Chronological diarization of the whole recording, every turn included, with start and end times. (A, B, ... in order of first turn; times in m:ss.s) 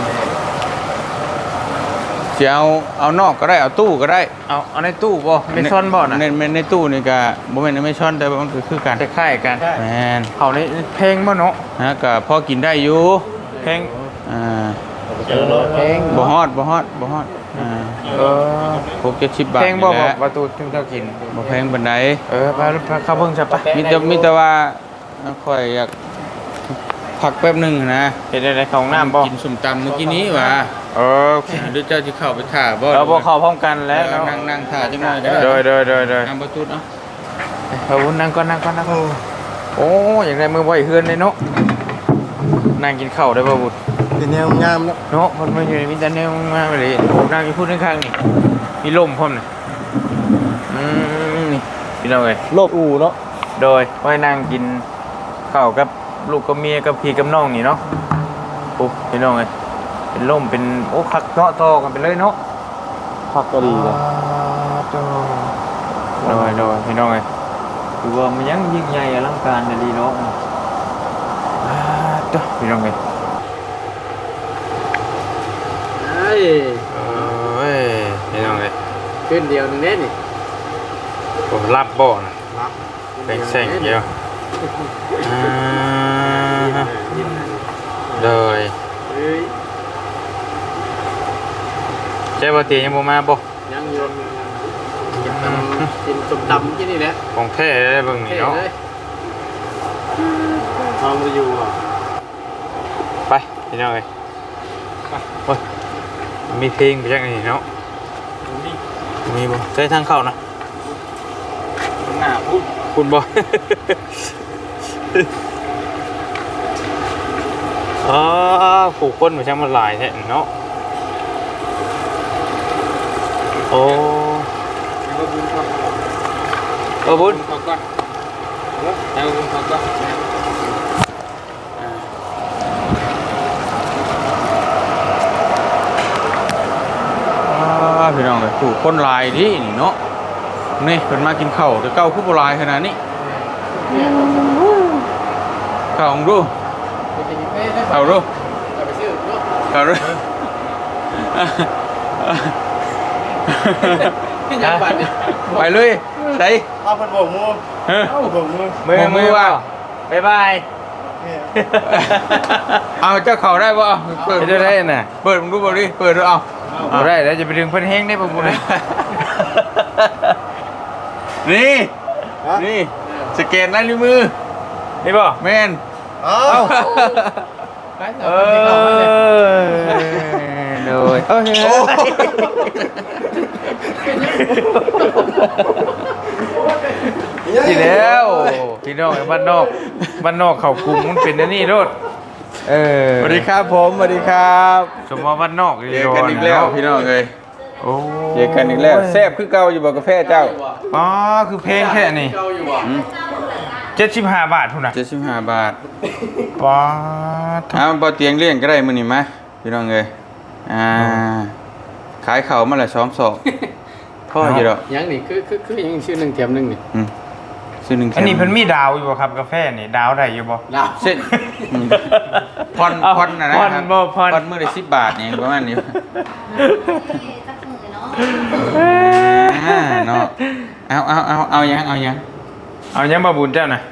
0:02.3-0:04.3 A
0:04.5-0:06.2 B
0:05.5-0:09.0 A
0:09.0-0:09.7 B
0:09.7-0:10.3 A
0:10.4-0:11.6 B
0:11.8-0:13.3 A
0:13.5-0:14.1 C
0:13.6-0:13.9 B
0:14.2-0:14.8 A
0:15.1-0:16.2 D
0:15.2-0:16.3 C
0:16.1-0:18.2 A
0:18.0-0:19.0 D
0:18.1-0:18.9 B
0:19.0-0:20.2 A
0:19.5-0:21.3 B
0:21.0-0:21.6 C
0:21.3-0:22.2 A
0:22.3-0:23.7 B
0:22.5-0:24.3 C
0:23.7-0:25.9 A
0:26.7-0:28.2 A
0:28.3-0:29.3 B
0:28.9-0:30.7 A
0:29.9-0:30.5 C
0:30.9-0:31.7 B
0:31.5-0:33.3 A
0:32.9-0:34.4 B
0:33.9-0:35.7 A
0:34.7-0:35.6 C
0:35.4-0:36.3 B
0:36.2-0:36.8 A
0:37.7-0:39.2 B
0:38.8-0:39.2 D
0:39.8-0:41.4 B
0:42.8-0:43.8 B
0:44.1-0:45.0 D
0:45.1-0:48.2 B
0:48.8-0:49.4 B
0:50.7-0:52.4 B
0:52.5-0:53.2 D
0:53.6-0:54.8 B
0:55.5-0:57.8 B
0:58.6-0:59.5 B
1:00.1-1:02.4 B
1:03.3-1:04.0 D
1:03.6-1:05.6 B
1:06.2-1:06.7 D
1:06.2-1:07.2 B
1:08.0-1:10.4 B
1:11.6-1:13.0 B
1:16.0-1:16.9 C
1:16.9-1:18.7 B
1:19.2-1:20.1 C
1:21.5-1:22.3 B
1:23.2-1:24.1 C
1:23.3-1:24.1 B
1:25.2-1:26.9 B
1:25.6-1:27.6 D
1:28.2-1:28.7 B
1:29.1-1:29.5 C
1:32.4-1:33.4 B
1:33.6-1:37.2 C
1:35.3-1:35.9 B
1:37.3-1:38.6 B
1:38.2-1:38.7 C
1:40.3-1:40.6 B
1:41.0-1:41.8 D
1:43.3-1:44.0 B
1:46.5-1:47.6 B
1:48.4-1:48.8 D
1:49.2-1:50.4 B
1:52.0-1:52.7 A
1:52.9-1:54.0 B
1:58.0-2:00.5 B
2:03.7-2:04.5 B
2:05.0-2:05.9 A
2:07.0-2:07.4 B
2:07.0-2:07.8 A
2:08.8-2:09.8 A
2:09.3-2:09.8 B
2:11.8-2:12.0 A
2:17.4-2:20.0 A
2:20.8-2:23.0 A
2:23.1-2:24.3 C
2:24.2-2:25.0 A
2:25.9-2:26.5 A
2:27.1-2:29.5 C
2:27.9-2:28.3 A
2:29.7-2:30.2 A
2:31.1-2:32.6 A
2:33.4-2:34.1 A
2:33.8-2:36.4 C
2:34.6-2:35.0 B
2:35.4-2:36.7 A
2:36.8-2:38.8 D
2:37.9-2:38.2 A
2:38.0-2:38.3 C
2:38.8-2:40.6 B
2:38.9-2:39.6 A
2:41.1-2:41.6 D
2:41.6-2:42.5 B
2:41.8-2:47.1 A
2:44.1-2:44.6 C
2:44.4-2:45.1 B
2:46.7-2:47.1 D
2:46.9-2:48.6 B
2:48.3-2:50.4 A
2:51.4-2:54.3 A
2:53.0-2:53.3 C
2:55.0-2:55.4 B
2:55.4-2:55.8 A
2:56.2-2:57.1 D
2:56.4-2:57.2 A
2:56.4-2:57.2 B
2:58.0-2:59.2 C
2:58.2-3:02.5 B
3:01.6-3:05.5 D
3:03.9-3:05.4 C
3:04.2-3:05.5 B
3:06.4-3:07.4 C
3:07.4-3:08.6 D
3:07.5-3:11.9 B
3:12.6-3:13.5 B
3:13.2-3:15.0 A
3:15.0-3:16.7 B
3:15.9-3:17.3 A
3:17.5-3:18.5 E
3:17.8-3:19.2 B
3:18.3-3:20.6 A
3:20.2-3:20.9 C
3:20.9-3:22.4 B
3:21.6-3:22.9 C
3:22.6-3:24.0 E
3:22.8-3:23.1 A
3:23.9-3:25.0 B
3:24.9-3:25.8 A
3:26.6-3:27.8 B
3:27.7-3:30.1 A
3:30.6-3:31.5 A
3:32.2-3:33.4 A
3:34.3-3:34.8 A
3:34.4-3:34.7 B
3:34.8-3:36.8 C
3:37.8-3:38.6 A
3:38.1-3:40.6 B
3:40.7-3:41.7 C
3:41.0-3:42.2 A
3:41.3-3:44.5 B
3:42.7-3:46.0 A
3:46.3-3:48.6 E
3:46.5-3:47.2 B
3:48.2-3:50.7 B
3:48.5-3:50.3 A
3:50.9-3:52.2 A
3:52.9-3:53.8 B